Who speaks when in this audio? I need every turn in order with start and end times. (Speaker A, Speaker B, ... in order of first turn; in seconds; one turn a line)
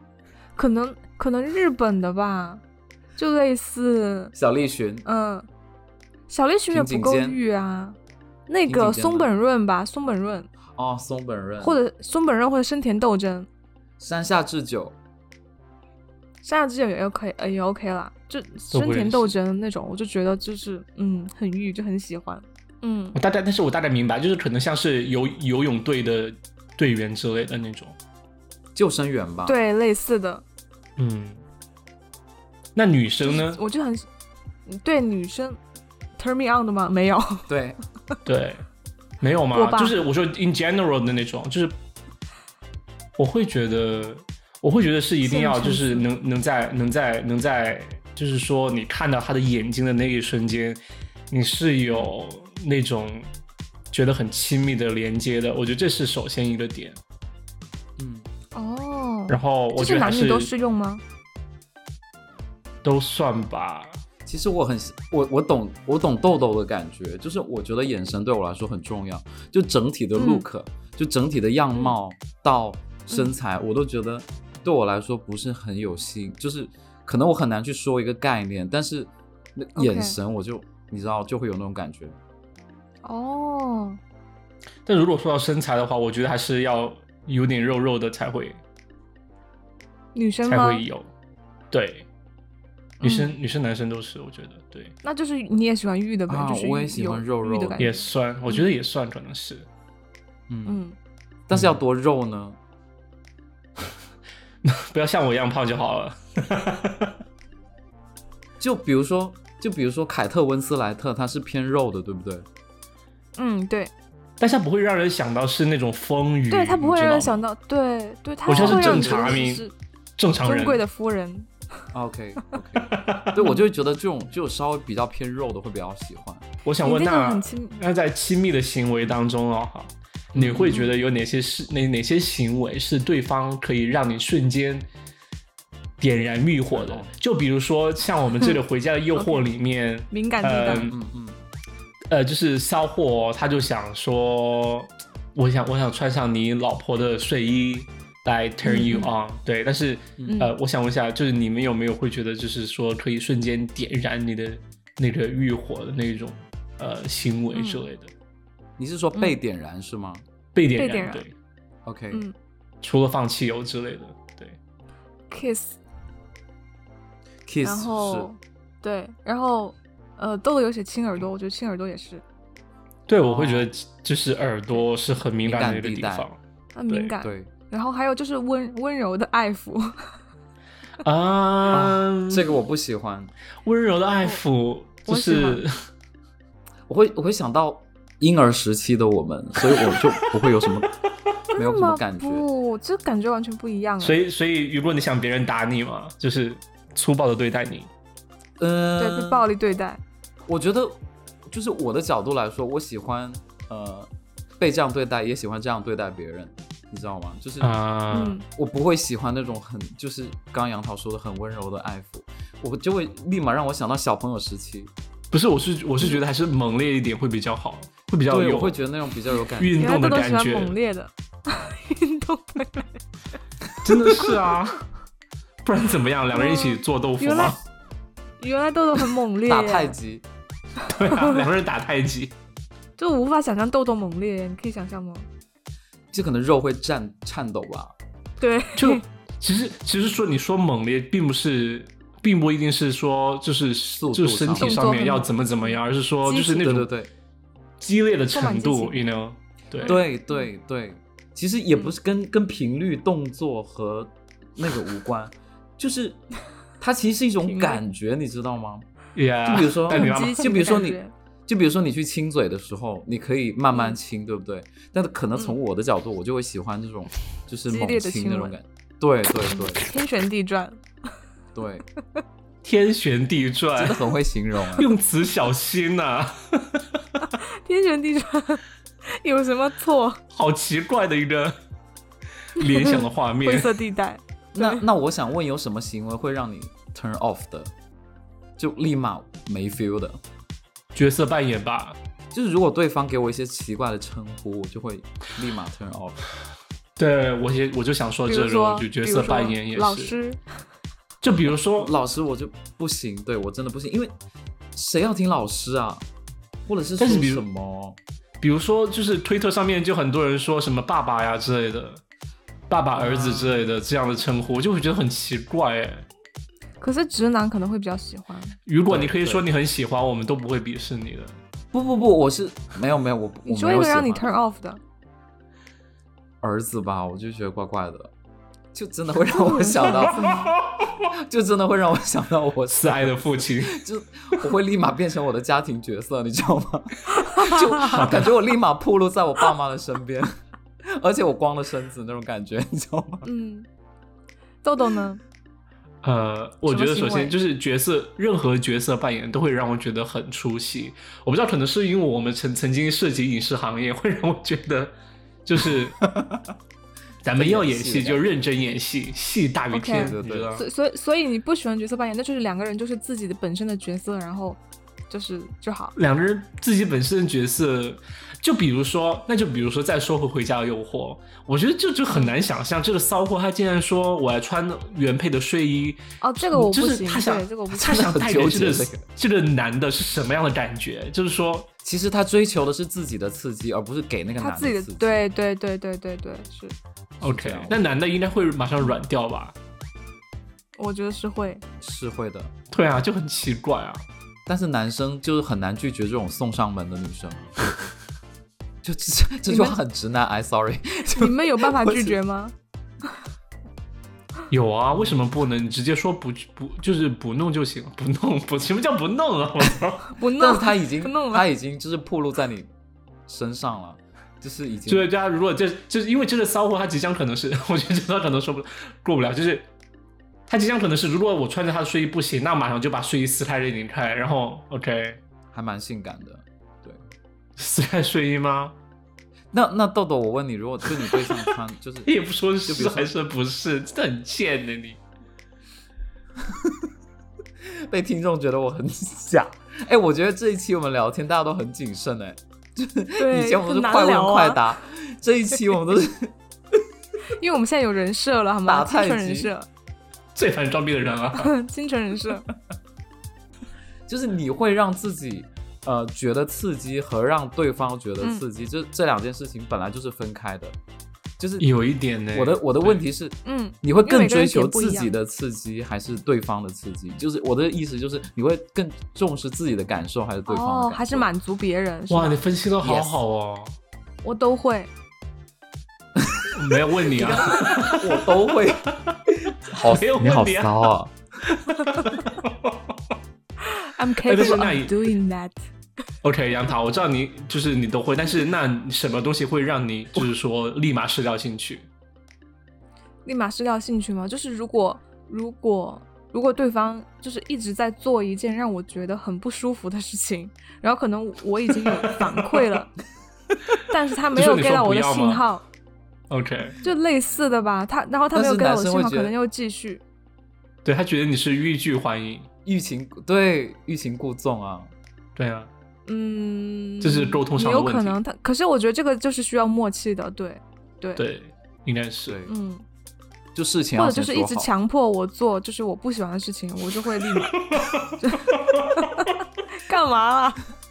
Speaker A: 0.6-2.6
Speaker A: 3.2-4.3
Speaker B: 4.3-5.1
Speaker A: 5.0-5.5
Speaker A: 6.3-8.0
Speaker B: 6.7-7.4
Speaker A: 8.5-10.5
Speaker B: 8.7-9.3
Speaker B: 10.8-11.8
Speaker A: 11.6-13.5
Speaker B: 14.0-15.0
Speaker A: 16.4-23.2
Speaker C: 18.7-19.4
Speaker C: 23.1-27.9
Speaker B: 28.8-29.6
Speaker A: 29.4-30.4
Speaker C: 31.0-31.4
Speaker C: 32.8-33.6
Speaker A: 33.2-34.1
Speaker A: 34.7-35.6
Speaker A: 36.2-37.5
Speaker B: 37.5-37.8
Speaker C: 38.3-38.6
Speaker C: 39.2-41.7
Speaker A: 39.5-40.0
Speaker C: 43.2-53.3
Speaker A: 45.2-46.1
Speaker C: 53.9-57.0
Speaker B: 58.0-58.3
Speaker A: 58.5-61.0
Speaker C: 59.3-60.5
Speaker C: 62.8-64.0
Speaker B: 64.3-82.2
Speaker A: 70.2-70.5
Speaker A: 79.8-80.2
Speaker A: 83.0-84.0
Speaker C: 84.9-88.6
Speaker A: 90.2-90.8
Speaker C: 90.5-91.1
Speaker C: 91.7-92.1
Speaker A: 93.0-93.3
Speaker C: 93.0-94.9
Speaker A: 95.0-98.7
Speaker B: 96.3-97.8
Speaker C: 97.8-99.7
Speaker B: 100.5-100.8
Speaker A: 100.7-101.0
Speaker B: 101.5-102.6
Speaker C: 104.6-107.2
Speaker B: 108.6-112.5
Speaker A: 113.4-113.9
Speaker C: 114.4-117.4
Speaker A: 116.5-119.7
Speaker B: 118.5-119.5
Speaker C: 118.5-119.7
Speaker C: 120.2-120.8
Speaker A: 120.4-121.5
Speaker B: 121.9-126.5
Speaker C: 122.8-123.4
Speaker A: 123.4-123.6
Speaker C: 126.7-134.9
Speaker A: 126.8-127.8
Speaker B: 130.3-130.9
Speaker C: 136.0-140.9
Speaker B: 136.7-137.1
Speaker A: 139.2-139.4
Speaker A: 140.1-140.9
Speaker B: 140.7-141.4
Speaker C: 142.1-158.1
Speaker A: 148.6-149.1
Speaker B: 150.2-150.4
Speaker A: 150.3-150.5
Speaker A: 157.5-157.8
Speaker B: 158.8-160.2
Speaker C: 160.6-161.3
Speaker A: 160.8-161.2
Speaker B: 161.8-162.2
Speaker C: 162.8-164.6
Speaker A: 165.3-165.8
Speaker B: 167.5-168.3
Speaker A: 167.6-172.2
Speaker C: 173.1-176.4
Speaker B: 173.2-173.7
Speaker B: 175.4-176.3
Speaker A: 176.8-180.1
Speaker B: 177.2-177.5
Speaker C: 181.0-182.6
Speaker B: 181.7-183.3
Speaker C: 183.6-185.7
Speaker A: 185.1-185.6
Speaker B: 186.9-190.9
Speaker C: 189.7-190.3
Speaker B: 191.5-192.5
Speaker A: 191.5-194.2
Speaker C: 194.0-197.9
Speaker B: 198.6-199.4
Speaker A: 199.0-200.0
Speaker B: 200.5-207.7
Speaker C: 207.6-208.4
Speaker A: 208.1-208.4
Speaker B: 208.5-214.9
Speaker C: 215.3-218.8
Speaker B: 218.3-219.8
Speaker C: 219.6-220.8
Speaker A: 219.8-223.0
Speaker C: 223.8-224.8
Speaker C: 225.6-227.6
Speaker A: 226.3-227.6
Speaker A: 228.4-229.9
Speaker B: 229.4-230.2
Speaker A: 230.8-231.4
Speaker C: 230.9-232.3
Speaker A: 233.0-235.3
Speaker B: 236.1-237.9
Speaker A: 238.4-239.0
Speaker C: 238.8-246.9
Speaker B: 244.0-245.0
Speaker A: 244.6-245.7
Speaker B: 246.3-247.1
Speaker C: 247.8-250.0
Speaker A: 248.3-249.0
Speaker A: 249.8-250.5
Speaker B: 249.8-256.2
Speaker B: 256.8-258.9
Speaker A: 257.4-257.8
Speaker C: 259.2-260.7
Speaker B: 259.5-269.9
Speaker A: 259.9-261.1
Speaker A: 267.7-268.6
Speaker A: 269.5-270.8
Speaker B: 271.6-271.9
Speaker C: 272.6-274.1
Speaker B: 273.8-274.9
Speaker C: 274.8-276.9
Speaker A: 277.2-280.2
Speaker C: 280.3-281.6
Speaker C: 282.6-283.8
Speaker A: 282.6-284.8
Speaker B: 284.5-287.7
Speaker B: 288.6-290.2
Speaker C: 290.9-292.0
Speaker B: 292.3-296.2
Speaker C: 297.0-300.1
Speaker A: 298.3-300.4
Speaker C: 301.2-301.9
Speaker B: 301.8-304.1
Speaker B: 304.7-306.1
Speaker B: 306.7-308.0
Speaker C: 307.0-307.4
Speaker C: 308.4-312.0
Speaker C: 312.7-316.1
Speaker B: 313.0-313.7
Speaker A: 316.8-318.6
Speaker C: 318.7-321.4
Speaker B: 318.9-319.4
Speaker B: 321.7-324.3
Speaker A: 323.4-324.8
Speaker B: 326.4-328.1
Speaker B: 328.7-340.3
Speaker A: 329.3-330.3
Speaker C: 330.1-330.9
Speaker C: 332.7-333.8
Speaker A: 337.1-338.0
Speaker C: 337.8-338.3
Speaker B: 340.9-343.3
Speaker A: 343.2-343.7
Speaker A: 344.6-345.2
Speaker C: 346.0-354.9
Speaker A: 346.7-347.4
Speaker C: 355.4-356.0
Speaker B: 356.1-356.4
Speaker C: 357.2-360.6
Speaker B: 357.4-358.4
Speaker A: 359.7-365.9
Speaker B: 359.9-360.6
Speaker C: 366.0-381.7
Speaker A: 372.1-372.4
Speaker A: 376.2-378.1
Speaker B: 377.8-379.0
Speaker B: 381.8-385.2
Speaker A: 384.4-386.8
Speaker B: 387.2-387.8
Speaker C: 387.2-389.6
Speaker A: 390.8-391.6
Speaker B: 391.8-392.5
Speaker C: 392.7-394.0
Speaker B: 394.5-397.9
Speaker B: 398.8-402.2
Speaker A: 399.5-399.8
Speaker A: 401.1-402.5
Speaker C: 404.5-410.2
Speaker A: 410.1-411.4
Speaker B: 410.4-412.7
Speaker B: 413.3-415.1
Speaker C: 414.9-419.7
Speaker C: 420.5-425.2
Speaker B: 425.5-427.1
Speaker C: 427.6-428.7
Speaker B: 429.5-432.1
Speaker C: 432.1-435.0
Speaker B: 432.7-433.1
Speaker B: 436.4-436.9
Speaker B: 437.6-446.4
Speaker A: 443.2-444.6
Speaker A: 447.3-449.7
Speaker B: 448.7-449.5
Speaker C: 450.4-451.5
Speaker A: 451.3-452.5
Speaker B: 454.1-460.8
Speaker B: 461.4-461.7
Speaker C: 461.6-463.0
Speaker B: 462.3-471.3
Speaker A: 463.4-465.1
Speaker A: 470.5-472.4
Speaker C: 472.1-473.8
Speaker B: 472.8-473.2
Speaker A: 474.2-474.9
Speaker B: 476.2-478.9
Speaker C: 476.5-480.9
Speaker A: 477.1-477.9
Speaker B: 479.4-481.1
Speaker C: 481.5-482.9
Speaker A: 483.6-485.6
Speaker C: 484.2-485.1
Speaker C: 486.2-491.9
Speaker A: 493.2-502.9
Speaker C: 501.9-502.6
Speaker A: 503.8-505.6
Speaker C: 504.3-505.4
Speaker C: 506.3-506.8
Speaker A: 506.8-510.0
Speaker B: 508.3-509.3
Speaker C: 510.9-512.5
Speaker B: 512.6-514.9
Speaker C: 515.4-515.7
Speaker A: 516.1-521.2
Speaker C: 517.0-518.2
Speaker C: 521.2-522.4
Speaker B: 522.3-522.5
Speaker A: 522.5-522.8
Speaker B: 523.5-524.7
Speaker A: 524.0-527.6
Speaker C: 527.7-529.0
Speaker A: 528.2-530.7